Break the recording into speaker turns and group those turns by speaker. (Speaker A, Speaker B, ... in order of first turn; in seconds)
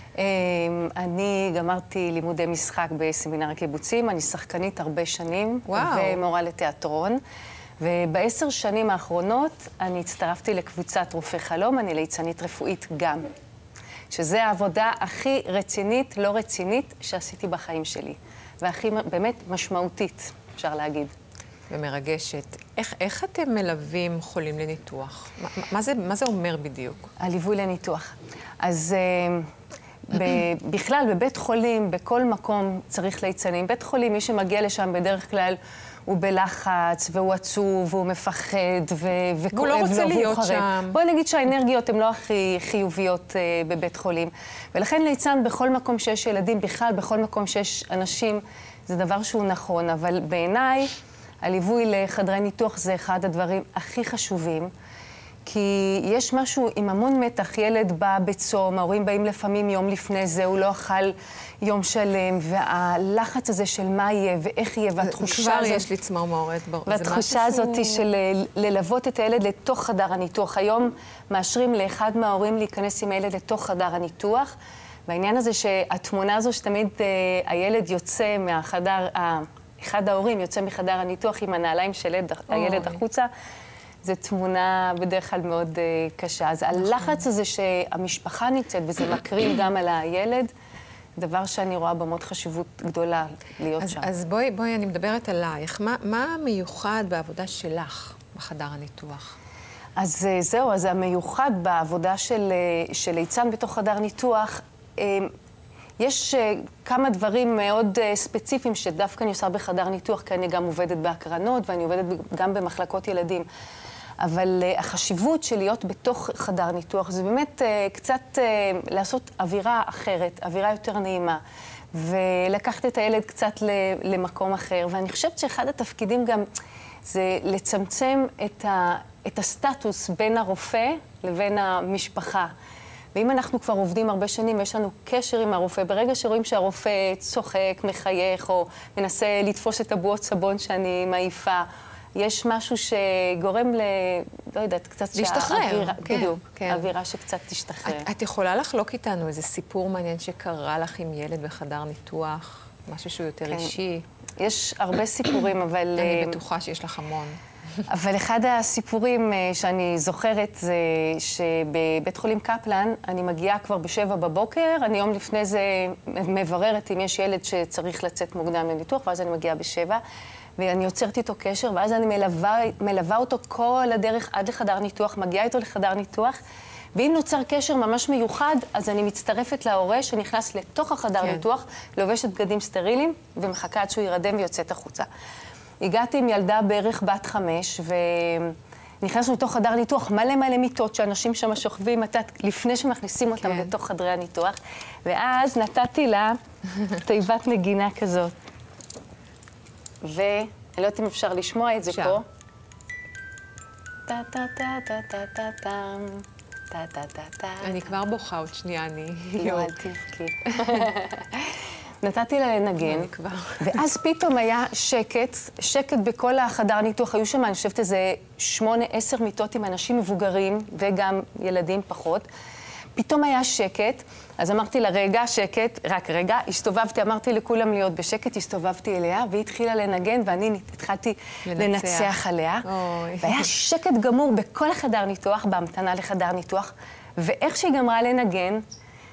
Speaker A: 0.2-7.2, 7.8-13.2, 14.1-21.1, 27.2-29.4, 30.1-50.9, 51.4-54.7, 55.5-65.9, 66.9-74.5, 75.1-83.3, 84.0-90.5, 91.2-94.1, 100.0-105.3, 106.0-113.5, 114.2-121.4, 121.9-126.5, 127.0-132.5, 133.2-141.7, 142.2-148.1, 154.4-156.4, 157.9-170.0, 170.6-176.4, 176.9-185.1, 185.8-196.4, 197.0-198.3, 200.0-202.2, 204.1-207.8, 209.4-211.5, 212.0-213.1, 213.6-222.3, 222.9-232.7, 233.2-238.6
Speaker B: 5.7-6.2, 21.7-27.1, 39.5-41.0, 65.0-68.1, 82.5-83.0, 93.8-99.4, 145.2-146.9, 147.8-154.1, 156.0-157.4, 193.4-193.7, 201.9-202.2, 207.6-209.8, 212.8-213.8, 231.5-233.5